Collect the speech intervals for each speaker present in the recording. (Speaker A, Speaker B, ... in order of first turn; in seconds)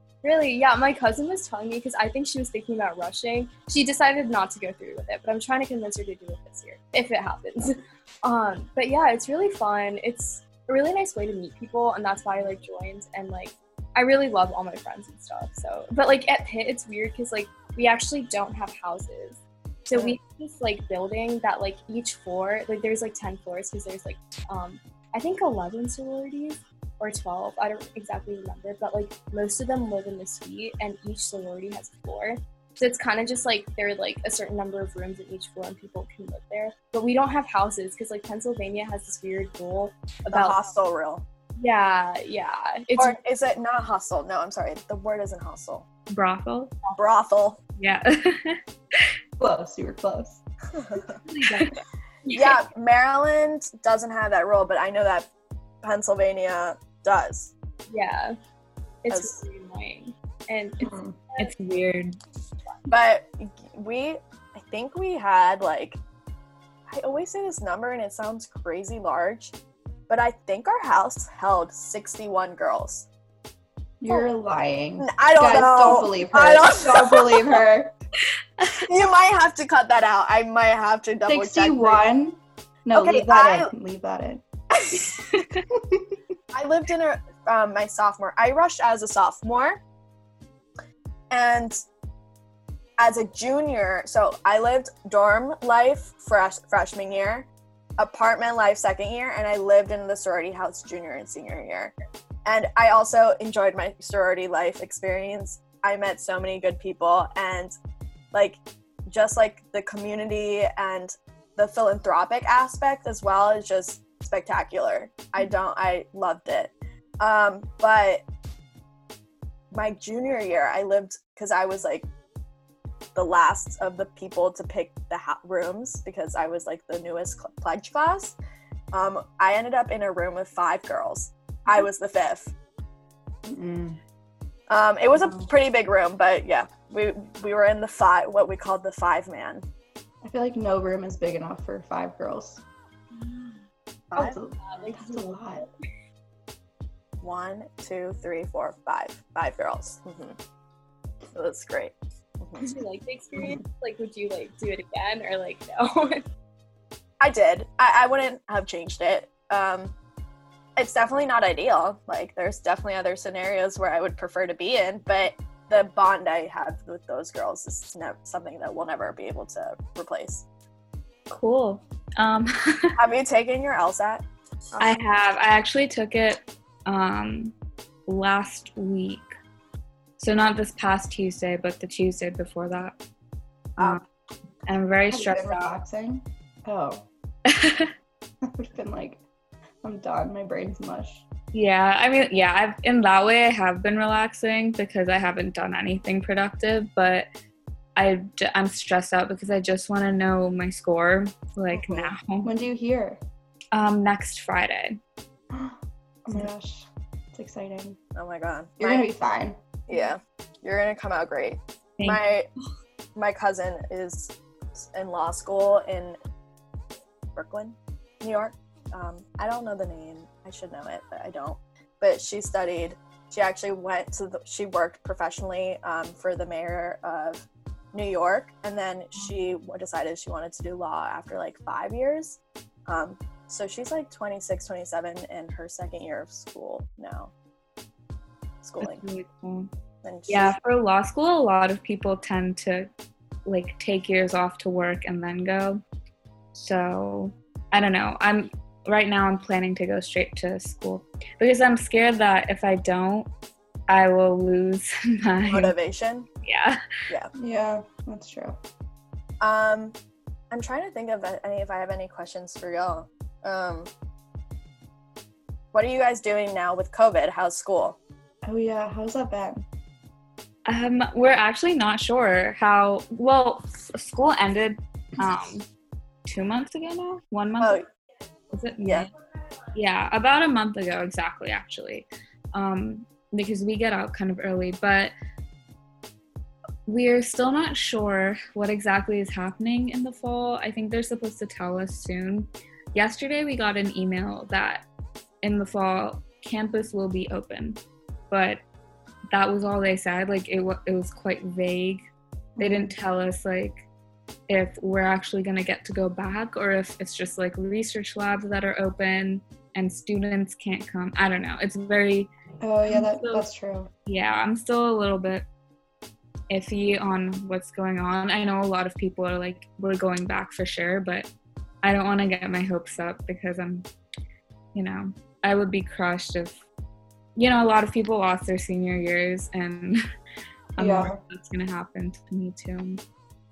Speaker A: 0.2-40.7, 41.6-43.2, 52.3-52.6, 57.9-58.4, 59.0-61.5, 143.1-143.6, 144.2-145.7, 152.6-156.2
Speaker B: 40.3-41.2, 43.0-45.8, 46.9-47.6, 50.7-51.0, 52.3-55.3, 55.8-57.5, 59.1-59.4, 62.9-66.0, 66.9-69.5, 70.1-73.1, 75.0-77.6, 78.9-82.0, 82.9-83.7, 86.5-89.8, 91.3-91.8, 93.0-97.5, 98.0-101.9, 102.4-107.7, 108.3-118.2, 119.7-122.1, 123.1-128.3, 128.9-132.5, 134.7-139.6, 144.1-144.4, 147.2-150.4, 151.3-152.8, 157.2-159.9, 160.8-170.4, 172.9-175.0, 208.1-209.1, 209.9-212.5, 213.2-216.2, 217.3-237.3, 238.6-239.0, 240.0-240.6, 255.5-256.3, 259.4-259.9, 260.5-263.9, 265.7-268.0, 277.6-277.8, 278.8-279.1
Speaker C: 46.1-46.8, 47.8-49.1, 51.3-51.8, 61.4-62.2, 78.6-78.9, 84.9-85.6, 171.3-172.9, 174.8-177.5, 178.1-179.3, 180.2-182.9, 183.8-184.0, 184.7-185.7, 187.5-187.9, 191.5-197.2, 197.9-202.5, 203.7-205.0, 238.8-239.7, 240.3-242.9, 243.4-245.8, 246.6-253.3, 253.9-255.7, 256.4-256.8, 270.6-275.6, 276.2-277.8, 278.5-279.1, 279.7-285.1, 286.9-294.9, 295.4-298.6, 299.3-302.1, 302.6-303.8, 304.5-312.3, 312.9-313.4, 314.1-315.4, 316.5-321.3, 321.8-323.9, 324.7-326.6, 327.4-330.0, 330.8-333.0
Speaker D: 49.4-50.4, 60.8-61.2, 74.0-77.9, 81.2-84.4, 85.7-86.2, 133.4-134.0, 135.1-135.5, 140.2-142.6, 144.2-145.7, 185.1-187.1, 188.4-189.2, 189.8-191.2, 201.7-203.2, 205.5-208.0, 208.8-209.6, 257.4-258.6, 268.4-269.6, 302.6-302.9, 312.6-313.9, 330.8-331.2